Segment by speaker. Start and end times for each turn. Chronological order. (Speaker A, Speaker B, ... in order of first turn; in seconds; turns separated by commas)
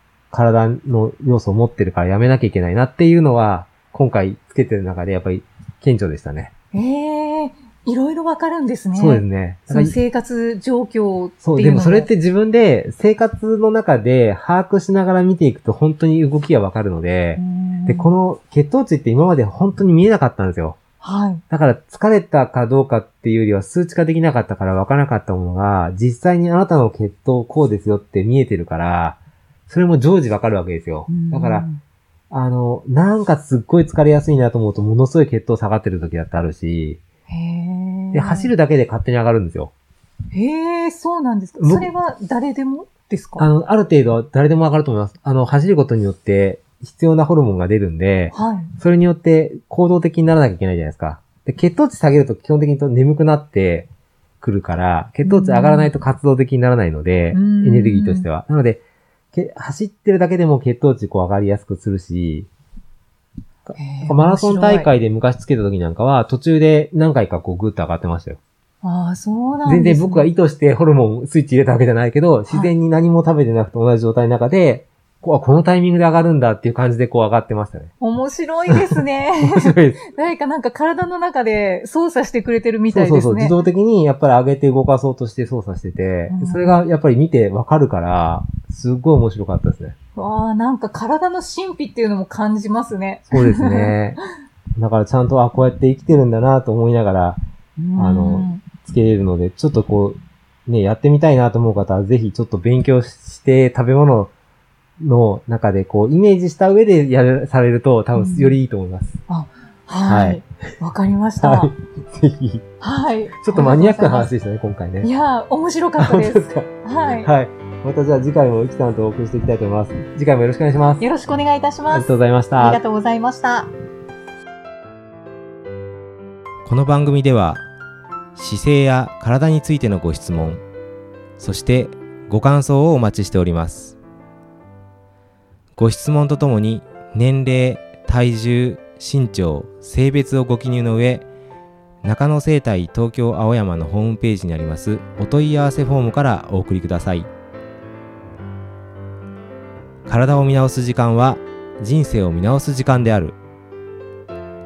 Speaker A: 0.3-6.5, Speaker B: 6.7-12.1, Speaker A: 8.9-10.0, Speaker A: 11.4-20.8, Speaker B: 17.4-18.1, Speaker B: 21.0-21.4, Speaker A: 21.5-31.7, Speaker B: 31.1-31.8, Speaker A: 32.3-37.0, Speaker B: 37.3-38.5, Speaker A: 38.1-39.7, Speaker B: 40.3-43.5, Speaker A: 41.6-41.9, Speaker A: 43.4-53.9, Speaker B: 48.3-48.7, Speaker A: 54.4-58.8, Speaker B: 55.2-55.9, Speaker B: 57.3-58.3, Speaker A: 59.3-62.5, Speaker A: 63.7-68.4, Speaker B: 63.7-64.9, Speaker B: 68.8-70.3, Speaker A: 69.6-77.9, Speaker B: 78.0-83.6, Speaker A: 79.4-80.1, Speaker A: 82.9-89.9, Speaker B: 86.3-86.8, Speaker B: 90.2-94.2, Speaker A: 93.3-94.2, Speaker A: 94.8-97.4, Speaker B: 97.8-98.7, Speaker A: 97.9-104.3, Speaker A: 105.0-109.2, Speaker B: 108.1-108.6, Speaker B: 109.3-111.7, Speaker A: 110.0-110.4, Speaker A: 111.4-112.6, Speaker B: 112.8-114.3, Speaker A: 113.4-115.1, Speaker B: 115.0-117.3, Speaker A: 116.0-121.1, Speaker B: 121.0-123.7, Speaker A: 121.9-122.8, Speaker A: 126.6-127.6, Speaker A: 128.3-130.6, Speaker A: 131.4-134.0, Speaker A: 135.8-141.2, Speaker A: 142.0-147.3, Speaker A: 150.1-153.4